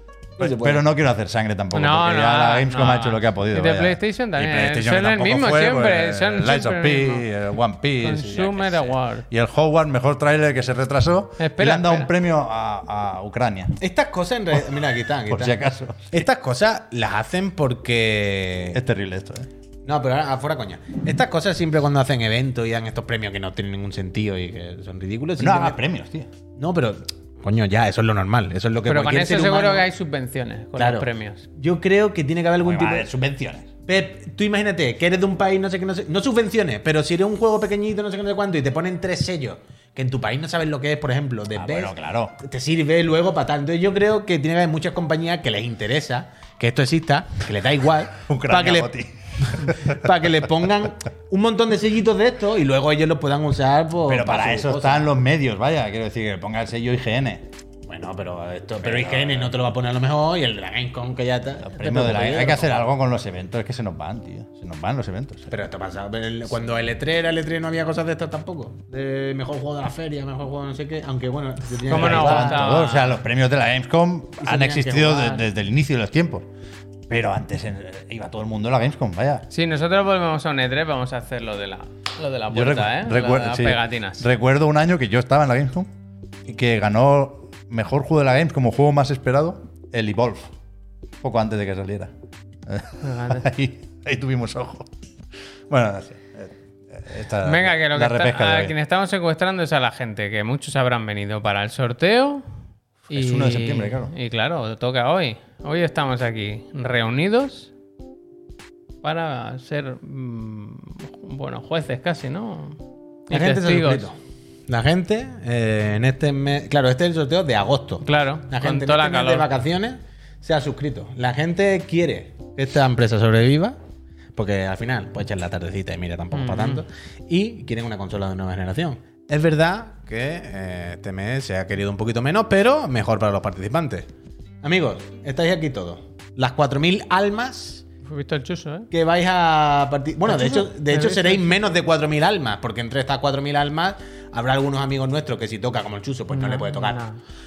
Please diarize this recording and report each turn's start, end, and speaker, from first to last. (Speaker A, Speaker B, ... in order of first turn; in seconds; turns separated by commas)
Speaker A: 0.4-13.8, Speaker B: 0.4-0.8, Speaker C: 1.7-7.3, Speaker C: 8.0-9.3, Speaker C: 11.4-12.1, Speaker B: 13.8-18.8, Speaker A: 15.3-16.2, Speaker A: 18.7-19.5, Speaker B: 19.9-25.8, Speaker A: 25.4-26.3, Speaker B: 26.6-29.9, Speaker C: 28.9-31.4, Speaker B: 30.8-33.1, Speaker A: 32.6-33.7, Speaker B: 33.9-48.9, Speaker A: 41.5-42.4, Speaker A: 48.2-50.0, Speaker B: 49.5-55.1, Speaker A: 54.1-57.5, Speaker B: 57.9-62.9, Speaker A: 58.8-59.5, Speaker A: 61.6-65.5, Speaker B: 65.5-72.7, Speaker C: 71.9-73.2, Speaker A: 71.9-76.5, Speaker B: 74.4-75.4, Speaker A: 77.1-79.5, Speaker C: 79.5-84.2, Speaker A: 82.5-85.9, Speaker A: 86.5-90.5, Speaker A: 91.2-92.1, Speaker A: 92.7-94.9, Speaker C: 93.0-93.5, Speaker A: 95.7-98.8, Speaker C: 97.4-102.5, Speaker C: 103.1-107.7, Speaker A: 103.1-104.1, Speaker C: 109.0-114.1, Speaker B: 113.3-114.2, Speaker B: 114.7-123.8, Speaker C: 118.0-119.5, Speaker B: 124.4-134.1, Speaker C: 126.3-126.8, Speaker B: 134.6-137.8, Speaker C: 138.1-138.9, Speaker B: 138.9-147.0, Speaker C: 140.3-141.7, Speaker C: 146.3-147.2